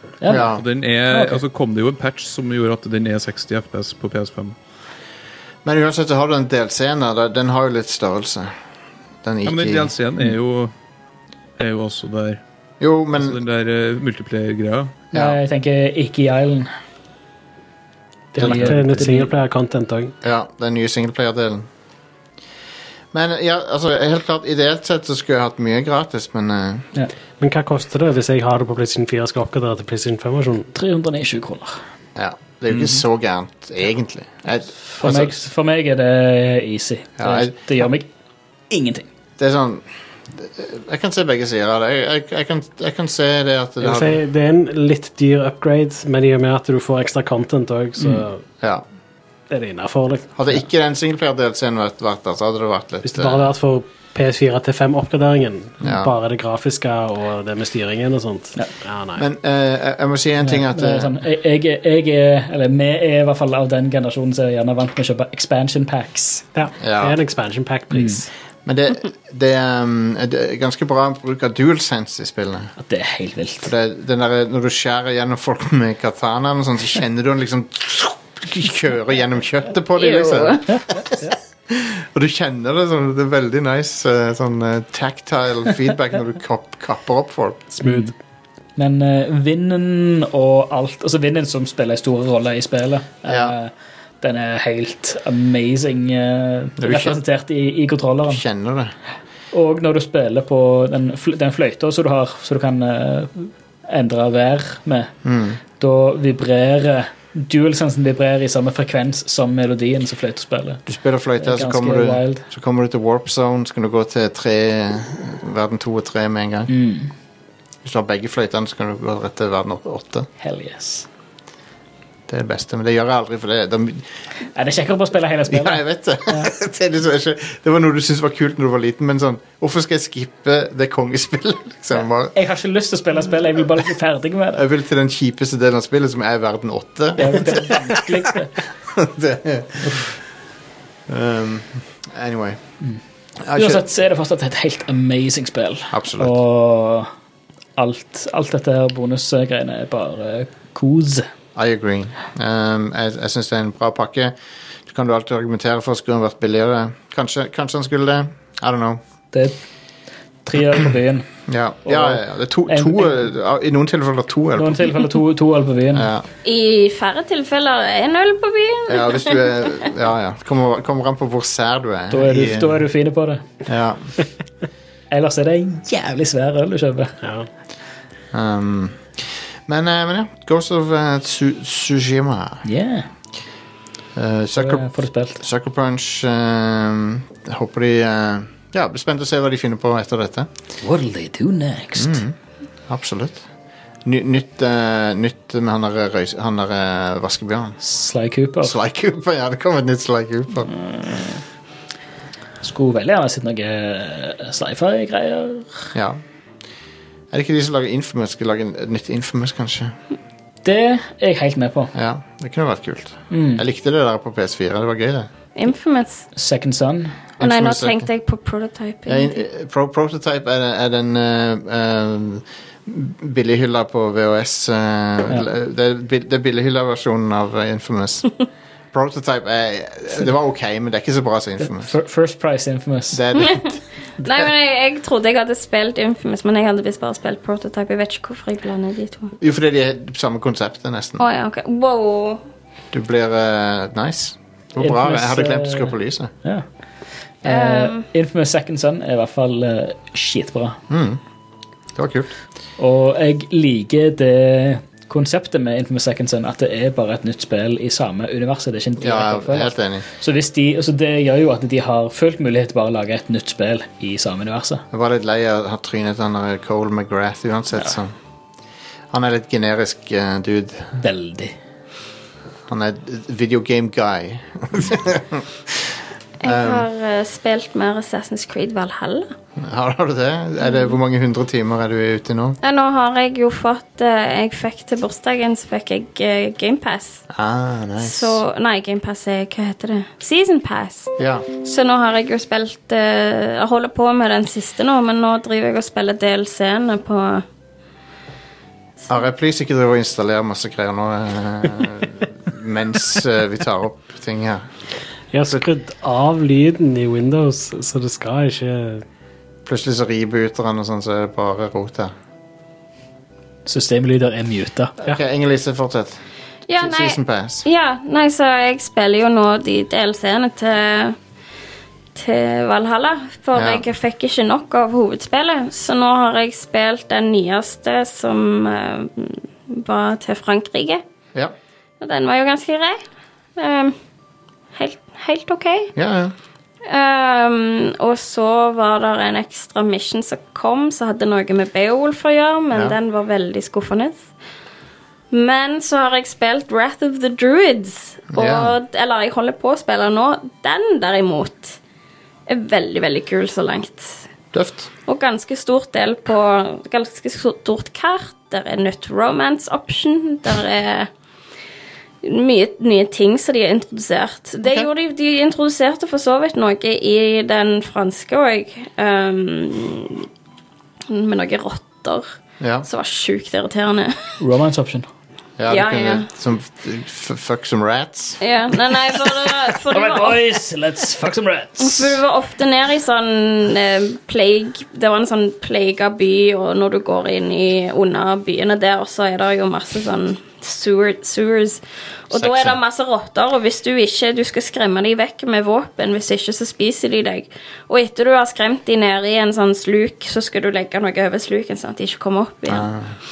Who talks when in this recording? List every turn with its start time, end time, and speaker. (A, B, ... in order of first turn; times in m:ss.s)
0:00.2-0:00.5 A
0:00.3-0:00.6 B
0:00.3-0:04.5 C
0:01.1-0:01.4 A
0:05.6-0:08.5 B
0:09.2-0:09.9 B
0:09.4-0:10.7 C
0:11.6-0:12.4 C
0:12.8-0:13.4 B
0:13.1-0:15.0 C
0:15.1-0:16.7 A
0:18.3-0:20.1 D
0:18.4-0:19.3 A
0:20.2-0:21.7 B
0:23.1-0:26.9 B
0:27.4-0:30.7 D
0:30.7-0:31.8 A
0:32.2-0:35.4 B
0:32.7-0:33.0 C
0:34.9-0:38.1 A
0:37.2-0:37.6 B
0:38.7-0:39.1 A
0:39.4-0:44.2 B
0:43.8-0:48.4 D
0:48.0-0:48.2 A
0:49.5-0:50.5 D
0:50.3-0:53.5 B
0:53.0-0:59.2 D
0:55.8-0:56.1 B
0:59.2-1:01.1 B
1:00.4-1:06.4 A
1:06.5-1:08.3 D
1:06.8-1:07.2 B
1:07.9-1:08.2 A
1:08.6-1:12.7 B
1:12.8-1:13.7 A
1:13.6-1:27.7 B
1:20.0-1:20.7 E
1:27.8-1:28.1 D
1:27.8-1:28.1 A
1:28.8-1:33.7 A
1:33.2-1:33.6 B
1:34.2-1:38.4 A
1:36.8-1:37.2 B
1:38.3-1:38.9 B
1:39.5-1:45.1 A
1:45.2-1:45.6 B
1:45.8-1:50.8 A
1:50.9-1:56.7 B
1:51.4-1:52.4 A
1:56.7-1:57.1 A
1:57.8-2:00.3 B
2:00.4-2:01.1 A
2:02.3-2:04.1 B
2:04.5-2:06.5 A
2:05.5-2:12.3 B
2:12.3-2:14.6 A
2:14.5-2:18.2 B
2:17.2-2:18.5 A
2:18.9-2:20.2 B
2:21.1-2:22.6 B
2:23.4-2:23.8 B
2:23.5-2:27.1 A
2:25.9-2:26.4 B
2:27.8-2:31.3 A
2:31.5-2:34.3 B
2:34.8-2:39.0 B
2:39.3-2:39.6 A
2:40.4-2:41.3 A
2:41.5-2:45.0 B
2:41.8-2:43.2 A
2:44.6-2:46.1 A
2:45.9-2:46.3 B
2:46.4-2:49.6 E
2:48.9-2:52.8 B
2:52.1-2:53.4 A
2:53.6-2:54.1 B
2:55.1-2:57.2 A
2:57.2-2:57.5 D
2:58.3-3:02.6 B
3:02.6-3:03.1 A
3:04.1-3:04.9 B
3:04.6-3:05.4 A
3:05.4-3:10.5 B
3:10.8-3:12.2 A
3:12.0-3:12.3 B
3:12.9-3:13.4 B
3:14.0-3:17.8 B
3:17.8-3:18.7 A
3:18.6-3:20.7 B
3:20.7-3:21.4 A
3:22.6-3:25.9 A
3:25.9-3:26.2 B
3:27.3-3:29.9 B
3:30.6-3:31.9 A
3:31.9-3:35.3 B
3:33.3-3:33.6 A
3:35.6-3:36.3 E
3:36.3-3:37.2 A
3:37.4-3:38.1 B
3:37.4-3:39.4 E
3:39.1-3:48.3 B
3:48.9-3:51.9 B
3:51.6-3:53.2 A
3:53.1-3:53.8 B
3:54.2-3:59.3 E
3:59.4-4:01.2 B
4:01.2-4:02.4 E
4:02.9-4:06.3 B
4:04.8-4:06.6 A
4:07.4-4:10.8 A
4:07.4-4:08.0 E
4:10.9-4:11.2 B
4:11.9-4:12.3 B
4:12.8-4:24.8 A
4:19.0-4:20.0 B
4:24.9-4:28.1 B
4:29.1-4:30.9 B
4:31.0-4:31.5 A
4:32.7-4:36.9 B
4:36.4-4:39.3 E
4:39.6-4:42.6 B
4:42.6-4:47.2 E
4:47.3-4:48.4 B
4:48.0-4:57.4 E
4:51.2-4:51.5 B
4:59.1-5:04.6 B
5:05.3-5:09.0 D
5:09.6-5:12.1 B
5:13.6-5:14.9 A
5:15.0-5:16.2 B
5:16.7-5:21.2 E
5:16.8-5:17.6 B
5:22.1-5:31.0 E
5:23.5-5:23.8 B
5:32.0-5:33.0 E
5:33.6-5:33.9 E
5:34.7-5:35.9 E
5:36.0-5:36.3 B
5:36.9-5:44.2 E
5:45.3-5:51.8 E
5:48.3-5:48.7 B
5:52.5-5:54.2 E
5:54.5-5:54.9 B
5:55.1-6:01.1 E
6:02.2-6:10.3 E
6:04.6-6:04.9 B
6:11.1-6:14.3 E
6:12.6-6:12.8 B
6:14.4-6:15.1 A
6:15.6-6:18.4 B
6:15.7-6:16.3 E
6:18.4-6:20.4 E
6:19.9-6:22.2 A
6:21.8-6:42.9 E
6:32.3-6:32.8 B
6:42.7-6:43.1 B